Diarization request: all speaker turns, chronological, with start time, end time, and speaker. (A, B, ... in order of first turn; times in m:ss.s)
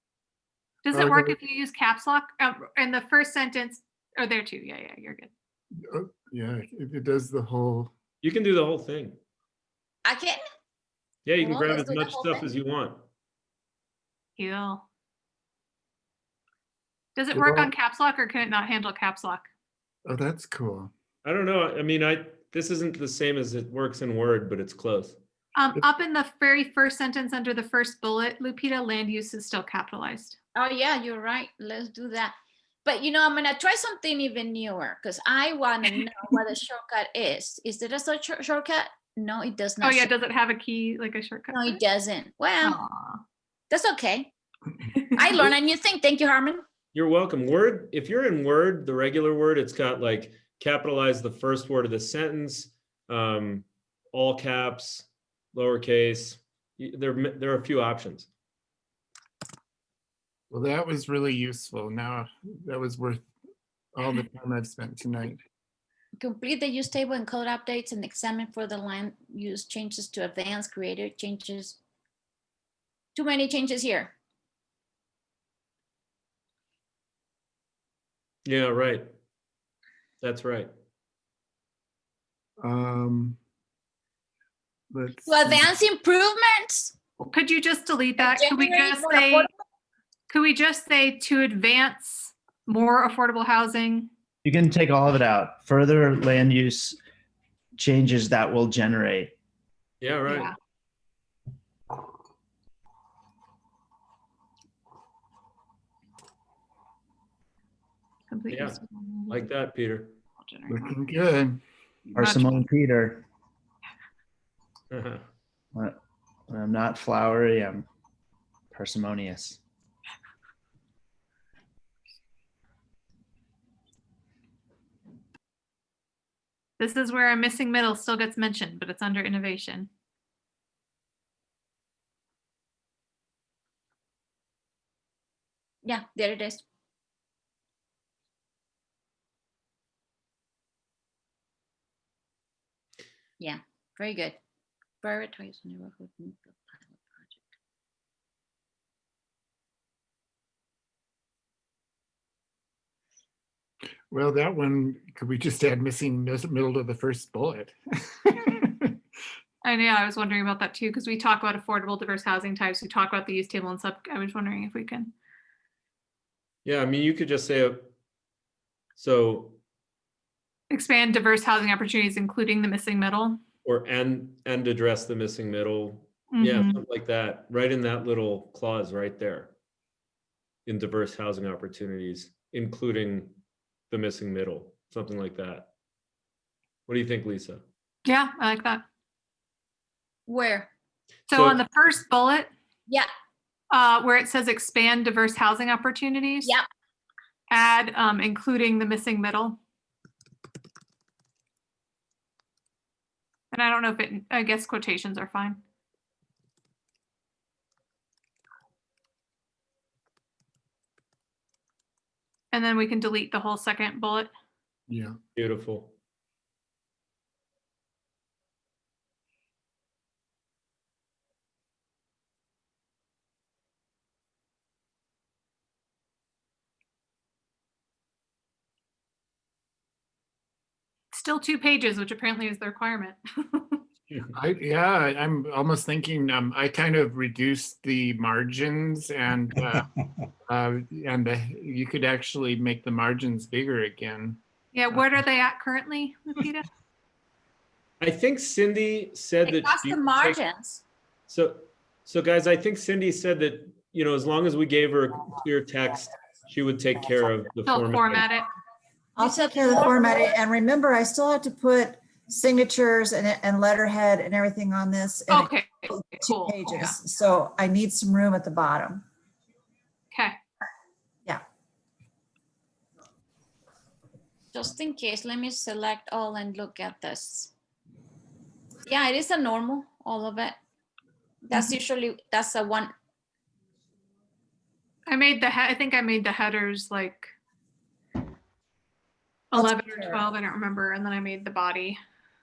0:00.9-0:05.3 A
0:00.9-0:01.4 B
0:05.8-0:07.9 B
0:08.2-0:09.2 C
0:10.0-0:10.4 D
0:11.3-0:13.0 C
0:11.4-0:12.5 D
0:14.4-0:14.8 A
0:17.2-0:19.5 A
0:17.3-0:17.7 B
0:20.1-0:20.9 B
0:21.2-0:25.2 C
0:25.6-0:30.4 A
0:30.5-0:32.3 D
0:32.8-0:40.1 D
0:39.8-0:41.8 A
0:41.5-0:42.8 D
0:42.6-0:43.2 A
0:43.7-0:44.3 D
0:45.0-0:45.5 A
0:45.2-0:46.6 D
0:46.9-0:58.3 C
1:00.5-1:03.3 B
1:04.0-1:05.4 B
1:06.2-1:11.8 D
1:13.2-1:14.1 D
1:18.5-1:19.1 C
1:20.2-1:20.7 C
1:22.6-1:23.4 B
1:24.9-1:25.7 B
1:25.2-1:26.9 D
1:27.3-1:29.5 A
1:28.2-1:29.5 D
1:30.3-1:34.1 A
1:34.4-1:37.0 E
1:37.8-1:39.3 E
1:40.0-1:40.5 C
1:40.3-1:40.5 A
1:48.3-1:49.5 A
1:48.5-1:48.8 C
1:49.3-1:50.2 C
1:50.4-1:51.0 A
1:50.7-1:51.6 B
1:52.1-1:52.7 A
1:52.2-1:53.2 E
1:54.9-1:55.2 C
1:56.5-1:57.9 E
1:58.7-1:59.6 E
2:06.8-2:09.9 A
2:15.8-2:16.6 D
2:23.4-2:24.4 D
2:25.0-2:27.4 D
2:34.1-2:38.9 B
2:39.6-2:45.1 A
2:46.6-2:47.9 C
2:49.0-2:49.6 C
2:50.7-2:53.4 A
2:53.6-2:59.5 C
2:56.3-2:56.8 A
3:00.7-3:03.4 C
3:03.9-3:05.7 C
3:06.9-3:07.6 C
3:08.1-3:08.8 A
3:10.3-3:10.7 D
3:11.3-3:12.5 A
3:11.3-3:11.6 C
3:13.7-3:16.5 A
3:17.5-3:19.6 A
3:23.5-3:25.6 A
3:32.5-3:34.3 A
3:34.9-3:35.2 B
3:35.4-3:35.9 C
3:51.1-3:53.8 A
3:54.3-3:59.9 B
4:00.5-4:04.4 B
4:04.7-4:06.7 A
4:08.0-4:10.4 C
4:09.4-4:10.8 D
4:11.3-4:18.3 C
4:17.7-4:18.5 A
4:19.2-4:29.0 F
4:19.2-4:20.4 D
4:25.3-4:27.0 A
4:30.1-4:30.4 A
4:34.5-4:37.5 D
4:38.8-4:40.6 D
4:41.4-4:42.9 D
4:45.1-4:47.3 A
4:49.5-4:52.0 A
4:49.5-4:50.2 F